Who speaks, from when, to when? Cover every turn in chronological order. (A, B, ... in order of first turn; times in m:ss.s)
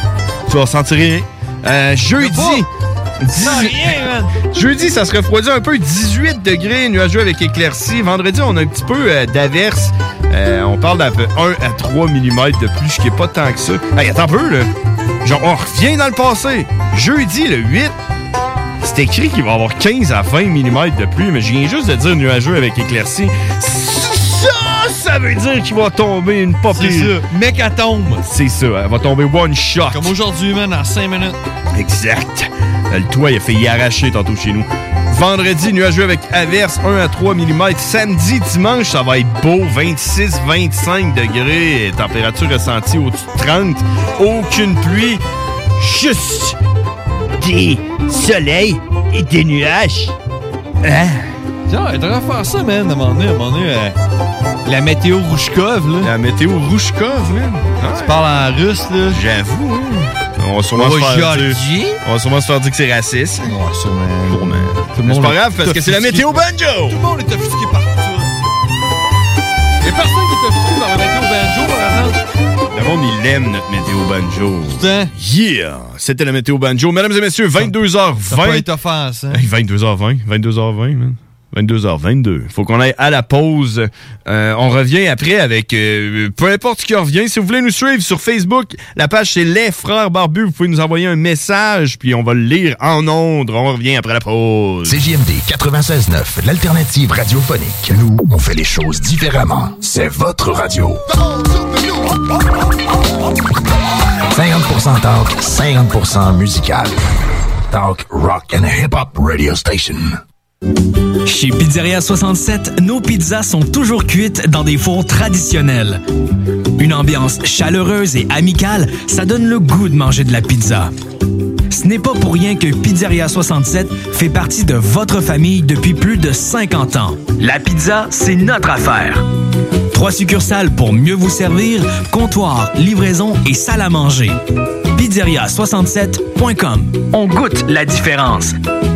0:00.5-0:02.7 A
0:02.2-0:02.6 B
0:03.2-0:03.9 A
0:03.3-0:04.3 B
0:04.4-0:14.7 A
0:15.2-0:17.9 A
0:18.8-0:27.1 A
0:26.7-0:28.2 B
0:28.2-0:30.1 A
0:29.9-0:31.4 B
0:31.7-0:45.2 A
0:45.8-0:46.6 A
0:47.4-0:50.2 A
0:50.8-0:51.3 A
0:51.7-0:54.0 B
0:54.6-0:56.1 B
0:56.0-0:58.2 A
0:58.0-0:59.2 B
0:59.1-1:03.5 A
1:00.8-1:02.0 B
1:03.4-1:08.3 B
1:04.3-1:07.0 A
1:09.8-1:12.2 B
1:12.7-1:18.7 A
1:14.7-1:15.1 B
1:18.2-1:19.4 B
1:19.3-1:35.0 A
1:34.9-1:41.0 C
1:44.3-1:47.0 C
1:47.7-1:50.2 C
1:51.2-1:56.0 D
1:56.8-2:00.9 D
2:01.7-2:09.2 D
2:09.9-2:14.4 D
2:14.9-2:18.6 D